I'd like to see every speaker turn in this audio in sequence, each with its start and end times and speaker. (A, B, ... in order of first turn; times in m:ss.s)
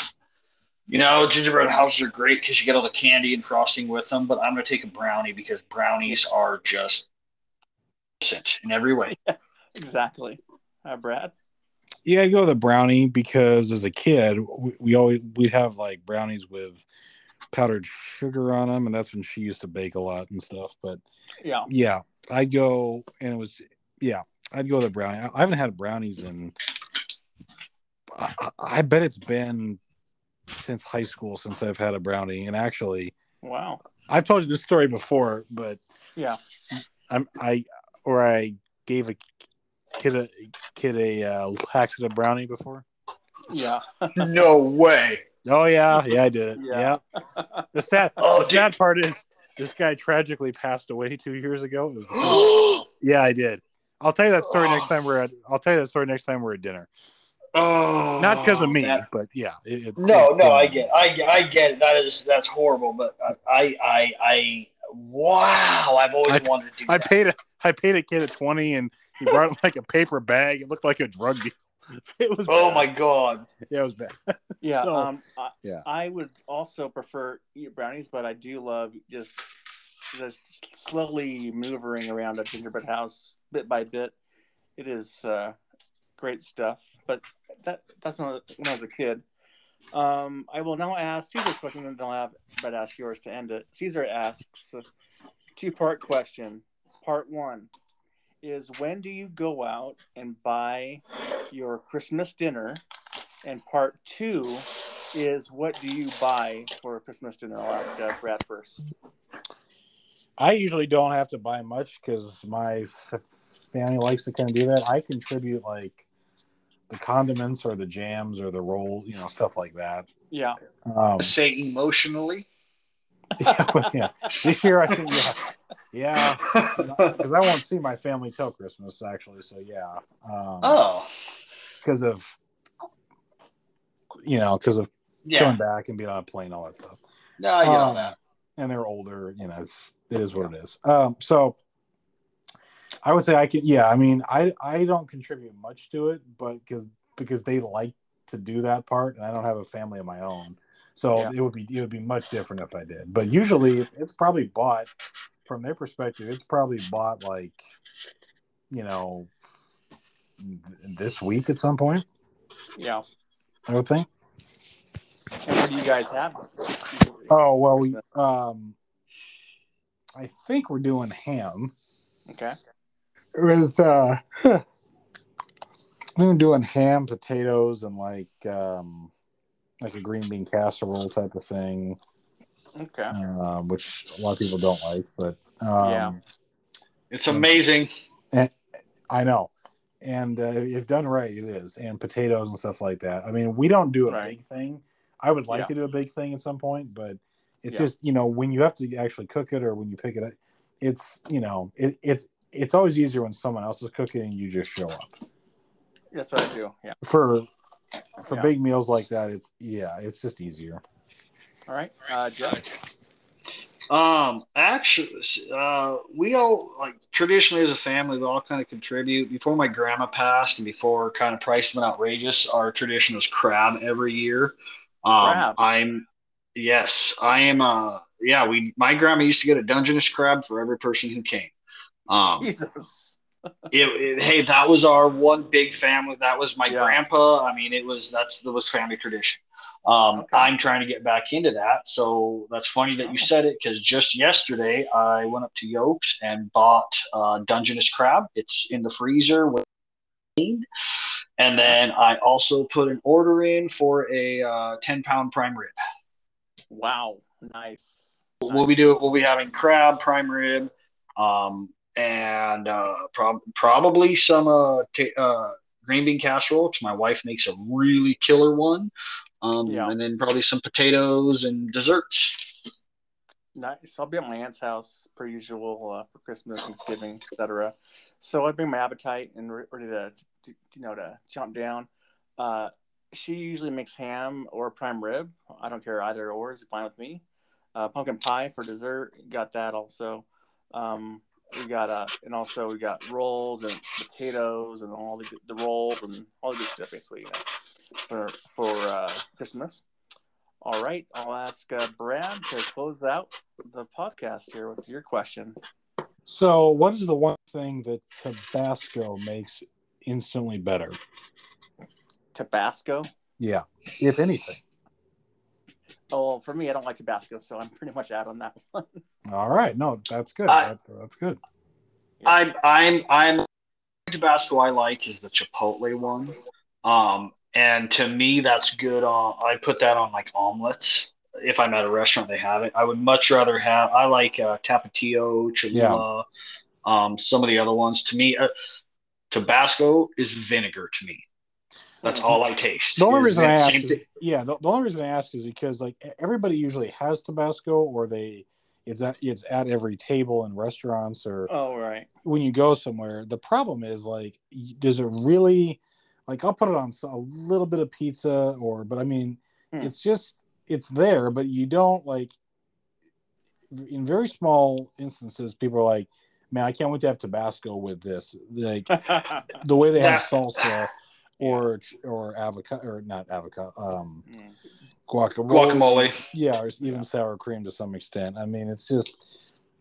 0:00.9-0:07.1 A
0:08.2-0:09.1 A
0:09.1-0:11.3 B
0:12.0-0:16.8 C
0:17.5-0:21.0 C
0:21.4-0:21.7 B
0:21.7-0:26.5 C
0:28.1-0:29.8 C
0:30.5-0:33.1 C
0:33.4-0:33.8 B
0:34.1-0:35.8 C
0:36.8-0:39.3 C
0:40.0-0:42.8 C
0:43.5-0:44.3 B
0:44.2-0:45.2 A
0:45.4-0:47.0 C
0:46.6-0:47.6 B
0:47.7-0:56.9 C
0:48.2-0:48.7 A
0:52.2-0:52.8 A
0:52.2-0:52.9 B
0:54.5-0:54.9 A
0:57.5-0:59.0 A
0:58.2-1:00.9 C
1:00.0-1:07.1 A
1:06.3-1:12.9 C
1:12.5-1:13.5 A
1:13.6-1:15.1 C
1:14.6-1:19.4 B
1:20.1-1:24.1 B
1:24.8-1:25.6 B
1:26.2-1:29.2 B
1:29.9-1:34.8 B
1:35.6-1:37.7 B
1:38.4-1:42.8 B
1:43.4-1:48.8 B
1:50.4-1:56.0 C
1:56.9-2:00.1 C
2:00.3-2:00.6 B
2:00.8-2:01.3 C
2:01.2-2:02.4 A
2:03.4-2:05.4 C
2:03.4-2:03.9 B
2:05.9-2:10.8 C
2:06.3-2:07.2 A
2:10.6-2:11.1 A
2:11.8-2:12.4 C
2:14.2-2:17.0 C
2:15.2-2:15.6 A
2:17.4-2:18.1 A
2:17.6-2:21.6 C
2:23.0-2:34.9 C
2:35.4-2:37.6 C
2:38.7-2:39.3 C
2:40.4-2:42.0 C
2:42.8-2:43.0 B
2:43.7-2:44.1 C
2:45.4-2:48.0 B
2:47.3-2:48.8 C
2:50.1-2:51.7 C
2:52.3-2:52.6 B
2:53.3-2:54.6 C
2:56.2-2:59.1 C
2:59.8-3:02.0 C
3:02.8-3:03.1 B
3:03.1-3:06.2 C
3:05.8-3:06.2 B
3:07.1-3:07.9 A
3:08.3-3:08.6 C
3:09.1-3:25.2 C
3:14.1-3:14.3 B
3:26.1-3:27.0 B
3:27.0-3:27.5 C
3:28.2-3:30.8 C
3:28.2-3:28.5 B
3:31.7-3:32.7 B
3:33.9-3:51.5 A
3:45.2-3:45.6 B
3:52.1-3:52.5 A
3:52.2-3:53.2 B
3:53.7-4:09.6 A
3:56.7-3:57.0 B
4:00.1-4:00.5 B
4:10.4-4:10.6 A
4:11.4-4:15.7 A
4:16.7-4:18.9 B
4:18.4-4:32.5 A
4:29.6-4:30.0 B
4:33.5-4:47.2 B
4:47.7-4:57.4 B
4:58.1-4:59.8 B
5:00.6-5:05.6 B
5:06.2-5:11.0 C
5:12.3-5:13.1 B
5:13.4-5:14.6 C
5:16.1-5:19.0 B
5:19.2-5:21.4 C
5:22.2-5:23.4 A
5:24.1-5:36.2 A
5:35.7-5:36.0 C
5:36.8-5:38.5 A
5:39.3-5:41.2 A
5:42.0-5:44.0 A
5:42.0-5:42.3 B
5:43.0-5:51.5 C
5:51.5-5:52.1 B
5:52.2-6:02.4 C
6:03.7-6:14.2 C
6:08.9-6:09.6 B
6:10.0-6:10.7 A
6:11.4-6:11.6 B
6:14.2-6:14.6 B
6:15.1-6:19.2 C
6:15.5-6:16.2 A